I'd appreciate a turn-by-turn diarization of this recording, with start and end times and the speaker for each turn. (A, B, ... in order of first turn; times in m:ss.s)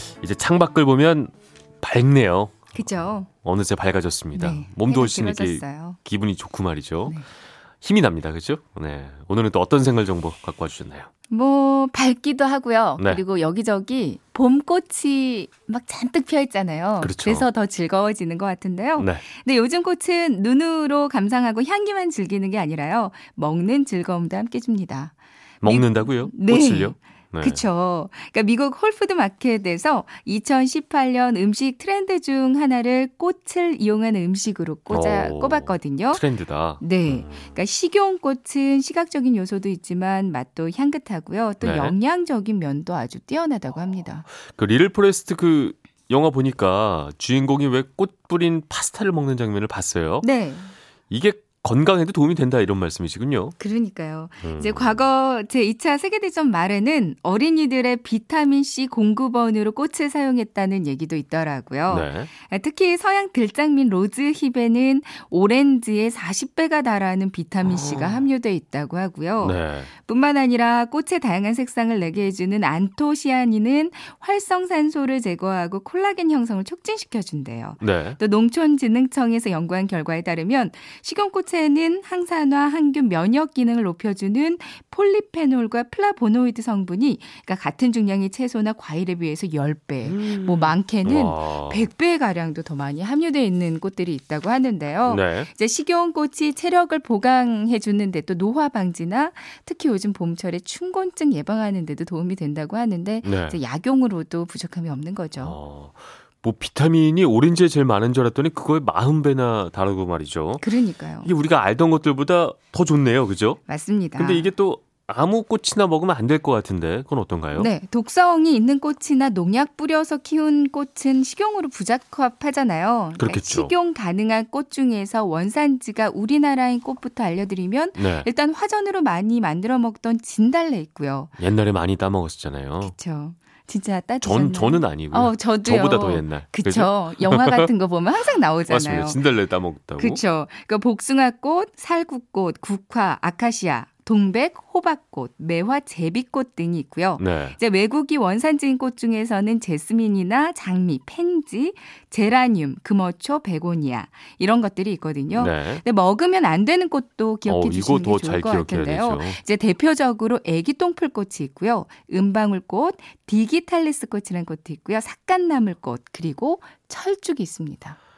0:00.2-0:07.2 A
0:02.7-0:03.3 B
0:04.3-0:06.0 B
0:07.8-0:11.1 A
0:11.3-0:36.2 B
0:17.0-0:17.5 A
0:19.0-0:19.2 A
0:25.6-0:27.6 A
0:34.9-0:37.6 A
0:36.8-0:44.3 B
0:41.6-0:42.0 A
0:44.5-0:50.3 A
0:50.2-0:50.7 B
0:51.1-0:53.6 A
0:53.6-1:45.6 B
0:54.4-0:55.0 A
1:01.9-1:02.3 A
1:07.6-1:08.2 A
1:09.4-1:09.9 A
1:17.8-1:18.2 A
1:30.0-1:31.9 A
1:35.0-1:35.5 A
1:43.2-1:43.6 A
1:45.4-1:53.6 A
1:50.6-1:51.3 B
1:53.7-1:54.5 B
1:54.2-1:57.7 A
1:57.6-2:11.3 B
2:03.2-2:03.7 A
2:08.0-2:08.3 A
2:11.4-2:13.0 A
2:12.8-2:19.3 B
2:14.2-2:17.7 A
2:18.7-2:20.2 A
2:20.0-2:48.0 B
2:27.2-2:27.6 A
2:35.3-2:35.8 A
2:37.5-2:39.4 A